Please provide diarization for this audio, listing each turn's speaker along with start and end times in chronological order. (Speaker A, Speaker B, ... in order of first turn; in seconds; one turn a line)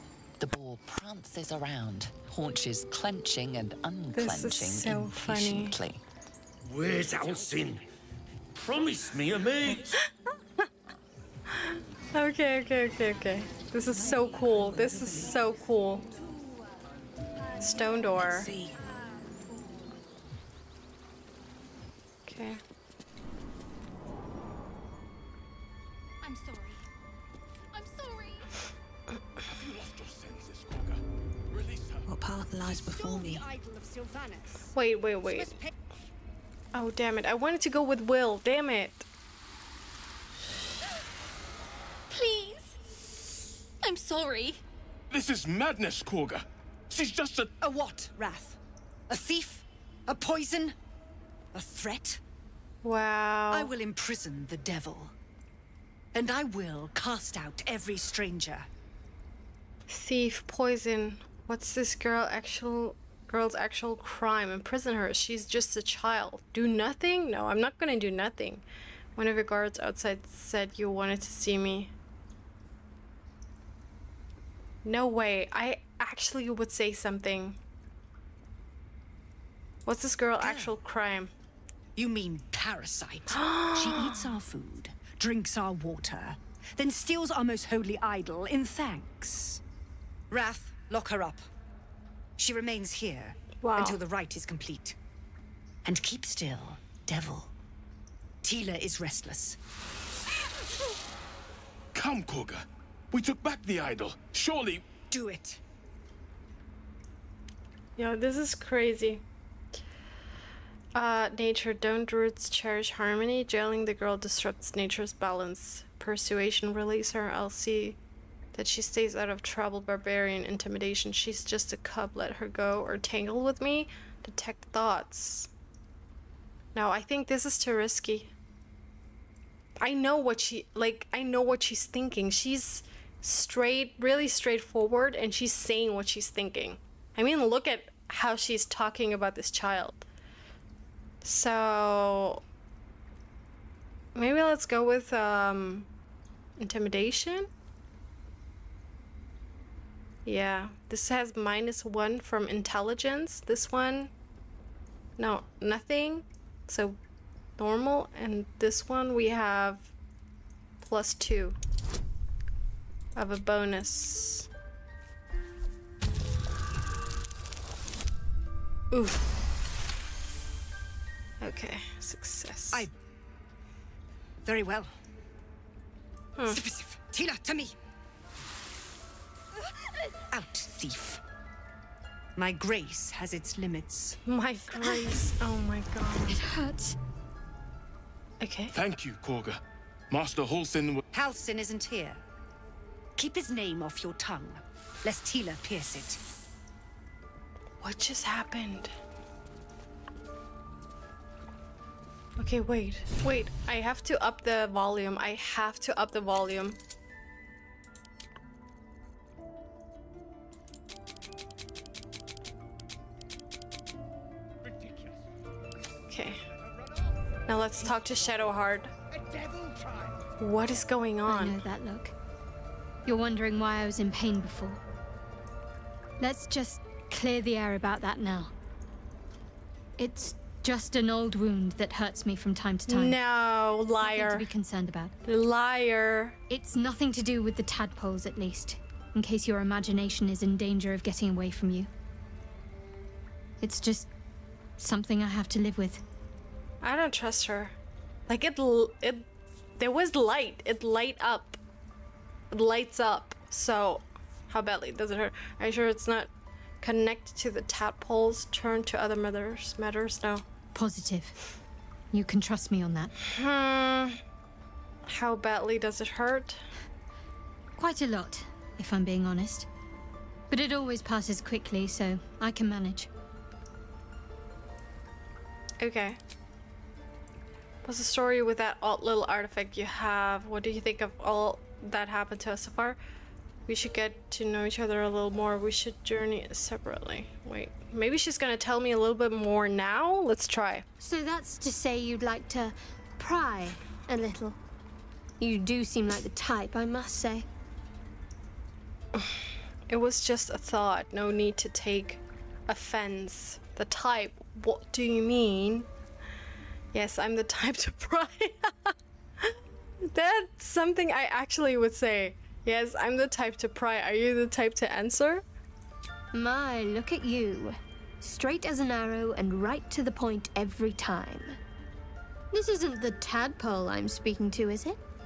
Speaker A: 0.4-6.0
Speaker B: 4.1-5.8
Speaker C: 6.6-7.8
Speaker C: 8.6-9.9
Speaker B: 11.5-16.1
Speaker D: 14.2-15.2
Speaker B: 17.6-18.5
Speaker D: 18.1-18.8
Speaker B: 22.3-22.6
Speaker E: 26.3-26.7
Speaker E: 27.8-28.3
Speaker F: 29.5-32.0
Speaker D: 32.1-33.5
Speaker G: 32.6-35.7
Speaker B: 34.8-35.5
Speaker B: 36.7-39.1
Speaker E: 42.1-42.8
Speaker E: 43.8-44.6
Speaker F: 45.1-47.5
Speaker G: 47.6-50.8
Speaker G: 51.5-52.2
Speaker B: 52.8-53.7
Speaker G: 53.5-55.1
Speaker G: 56.1-58.7
Speaker B: 59.9-68.6
Speaker B: 69.2-71.9
Speaker B: 74.8-77.6
Speaker B: 79.9-81.3
Speaker G: 80.4-80.8
Speaker G: 82.0-89.6
Speaker B: 83.3-84.3
Speaker G: 90.3-91.5
Speaker G: 92.4-95.0
Speaker B: 93.6-94.0
Speaker G: 95.8-97.5
Speaker G: 98.4-99.6
Speaker F: 101.9-104.9
Speaker G: 105.1-105.6
Speaker B: 108.0-109.2
Speaker B: 111.0-118.0
Speaker B: 118.5-125.5
Speaker B: 126.8-128.3
Speaker B: 129.8-140.1
Speaker B: 141.2-142.4
Speaker B: 144.2-145.9
Speaker B: 146.6-147.5
Speaker B: 150.3-154.1
Speaker B: 155.2-157.0
Speaker B: 157.6-159.9
Speaker B: 160.8-161.6
Speaker B: 163.2-164.5
Speaker B: 168.9-169.2
Speaker B: 171.4-172.9
Speaker G: 174.4-174.9
Speaker B: 176.4-176.6
Speaker G: 176.5-177.8
Speaker G: 180.3-181.2
Speaker G: 182.4-184.2
Speaker B: 184.3-186.5
Speaker H: 184.8-185.2
Speaker H: 186.3-186.9
Speaker B: 188.4-188.7
Speaker F: 188.7-191.0
Speaker G: 191.1-192.2
Speaker G: 193.2-196.2
Speaker B: 197.8-198.9
Speaker B: 202.4-206.8
Speaker B: 216.1-216.4
Speaker B: 217.5-218.9
Speaker B: 220.4-221.6
Speaker H: 221.3-222.1
Speaker H: 223.1-224.8
Speaker H: 226.2-228.5
Speaker H: 230.0-233.2
Speaker B: 232.9-234.5
Speaker H: 234.0-235.1
Speaker B: 235.3-236.4
Speaker H: 236.5-241.9
Speaker H: 243.6-244.1
Speaker H: 244.8-246.0
Speaker B: 246.8-247.7
Speaker B: 248.3-249.3
Speaker B: 249.8-251.6
Speaker B: 252.5-256.3
Speaker B: 256.8-260.4
Speaker H: 260.7-261.4
Speaker H: 262.1-263.1
Speaker B: 263.2-264.2
Speaker B: 265.1-266.6
Speaker H: 267.8-269.7
Speaker H: 270.5-273.1
Speaker B: 275.8-276.2
Speaker B: 277.9-283.0
Speaker B: 283.7-290.9
Speaker H: 291.0-294.6
Speaker H: 295.4-297.4
Speaker B: 299.9-305.9
Speaker B: 306.9-309.5
Speaker B: 310.1-315.4
Speaker H: 316.3-321.6
Speaker H: 322.5-325.0